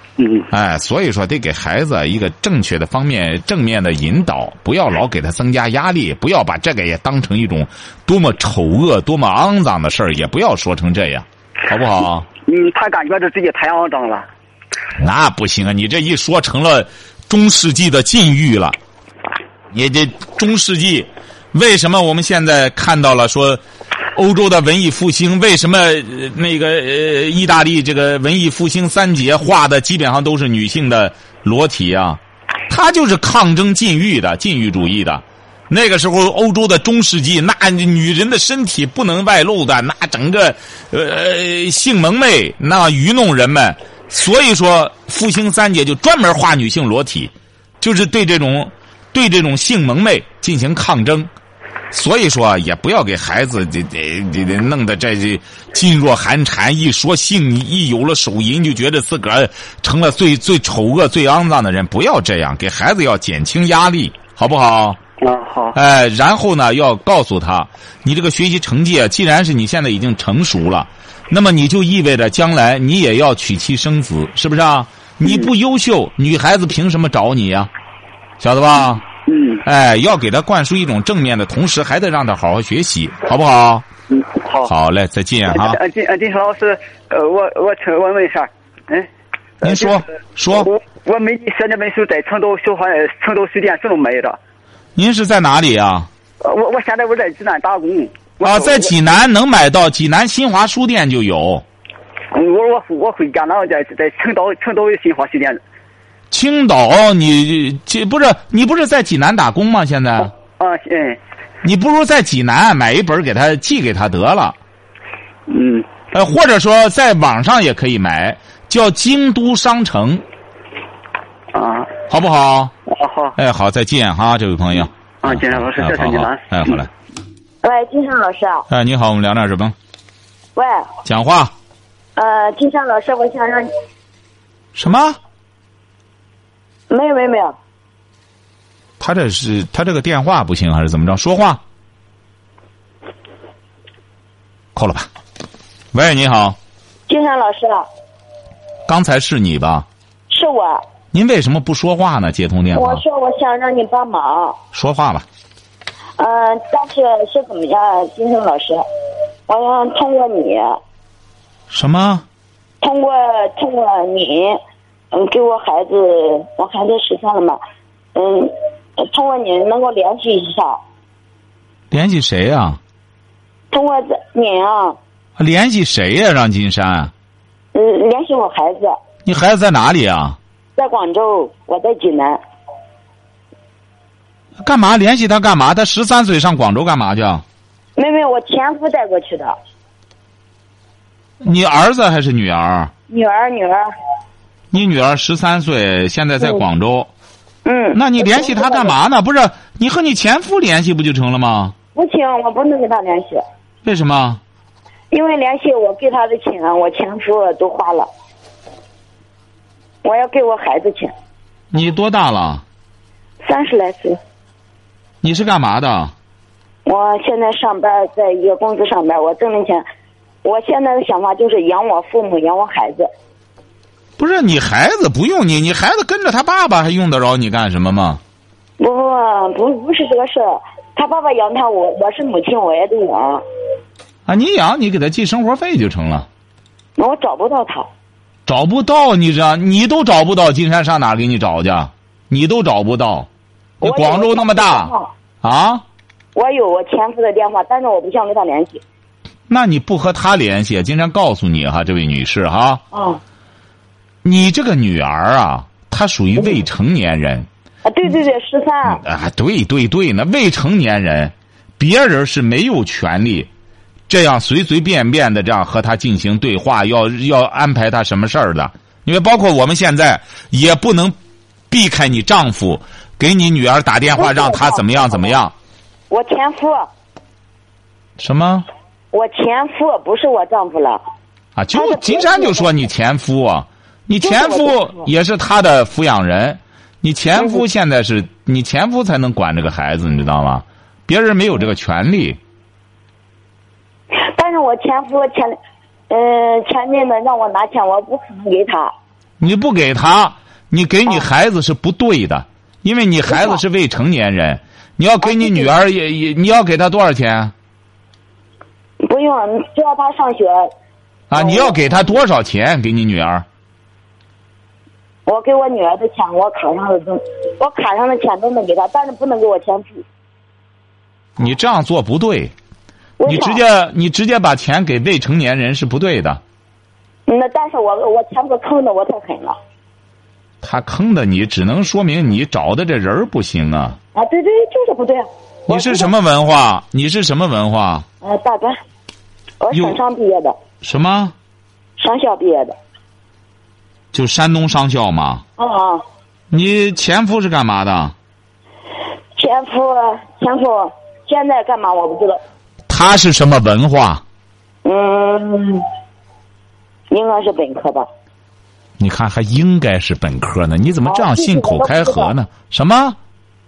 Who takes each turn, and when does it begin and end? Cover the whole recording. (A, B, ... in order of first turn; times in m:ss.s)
0:00.2-0:00.5 A
0:00.5-0:12.3 B
0:12.5-0:14.3 A
0:15.0-0:18.8 B
0:19.7-0:23.6 B
0:24.2-0:51.3 B
0:51.9-1:05.0 B
1:05.2-1:05.8 A
1:05.8-1:17.7 B
1:15.2-1:15.5 A
1:18.4-1:19.0 B
1:19.3-1:19.6 A
1:19.6-1:23.9 B
1:24.1-1:24.7 A
1:24.6-1:25.8 B
1:25.5-1:29.1 A
1:29.6-1:34.4 A
1:29.6-1:30.7 B
1:35.0-1:36.1 B
1:36.4-1:38.9 A
1:38.4-1:41.6 B
1:42.3-1:45.6 A
1:46.3-1:50.3 B
1:50.2-1:51.2 A
1:51.6-1:54.6 B
1:55.5-1:55.9 A
1:56.1-2:00.2 B
2:01.5-2:01.9 A
2:02.1-2:02.7 B
2:02.9-2:03.4 A
2:03.4-2:06.9 B
2:05.2-2:06.8 A
2:07.6-2:08.7 C
2:08.7-2:09.8 B
2:10.6-2:10.9 C
2:11.0-2:11.5 B
2:12.2-2:13.7 C
2:14.8-2:15.2 B
2:16.9-2:17.6 C
2:19.0-2:21.6 B
2:24.8-2:25.1 B
2:25.9-2:26.6 B
2:27.1-2:27.9 C
2:28.9-2:29.9 B
2:30.3-2:30.8 C
2:31.1-2:33.0 B
2:32.7-2:34.6 C
2:34.7-2:35.3 B
2:36.2-2:38.8 C
2:39.5-2:40.8 C
2:41.7-2:42.2 B
2:42.8-2:44.6 C
2:45.1-2:47.6 C
2:48.1-2:50.8 C
2:51.9-2:52.8 B
2:53.7-2:55.0 C
2:55.4-2:57.1 B
2:57.7-2:59.0 C
2:59.2-3:00.4 B
3:00.8-3:02.4 C
3:04.6-3:07.4 B
3:08.0-3:09.6 C
3:11.4-3:12.9 B
3:13.1-3:13.9 C
3:14.7-3:17.1 B
3:17.6-3:19.0 C
3:17.9-3:21.8 B
3:22.0-3:23.4 C
3:23.8-3:24.4 B
3:25.1-3:28.1 C
3:30.0-3:31.1 C
3:31.7-3:32.6 B
3:33.4-3:34.2 C
3:35.2-3:36.1 B
3:36.8-3:39.8 C
3:40.4-3:43.1 C
3:44.2-3:48.2 B
3:48.8-3:53.4 C
3:54.3-3:56.3 B
3:57.0-3:57.9 C
3:58.5-4:03.3 B
4:03.8-4:05.8 B
4:03.8-4:05.1 C
4:06.4-4:08.8 C
4:09.5-4:12.8 B
4:12.9-4:13.2 C
4:14.2-4:17.5 B
4:17.9-4:19.0 C
4:18.9-4:23.5 B
4:24.1-4:31.2 B
4:31.7-4:35.5 B
4:34.2-4:35.4 C
4:36.1-4:36.9 C
4:38.2-4:38.7 B
4:39.1-4:41.0 C
4:41.6-4:52.4 B
4:41.7-4:42.8 C
4:44.2-4:45.1 C
4:54.1-4:55.6 C
4:56.1-4:58.9 C
4:59.4-5:07.5 B
5:03.3-5:03.6 C
5:05.2-5:05.7 C
5:09.0-5:10.7 C
5:11.3-5:13.5 B
5:11.3-5:11.9 C
5:15.3-5:20.0 C
5:21.4-5:22.5 B
5:23.2-5:23.6 C
5:23.3-5:26.4 B
5:27.3-5:29.6 C
5:30.6-5:34.0 B
5:34.2-5:36.1 C
5:35.7-5:38.0 B
5:38.2-5:38.8 C
5:39.6-5:40.6 C
5:39.7-5:40.0 B
5:40.8-5:41.3 B
5:42.0-5:42.8 C
5:44.1-5:45.4 B
5:45.6-5:46.0 C
5:46.5-5:48.1 B
5:49.4-5:52.4 C
5:52.9-5:54.2 B
5:54.8-5:55.8 C
5:57.1-5:58.1 C
5:59.0-6:03.2 B
6:01.1-6:02.3 C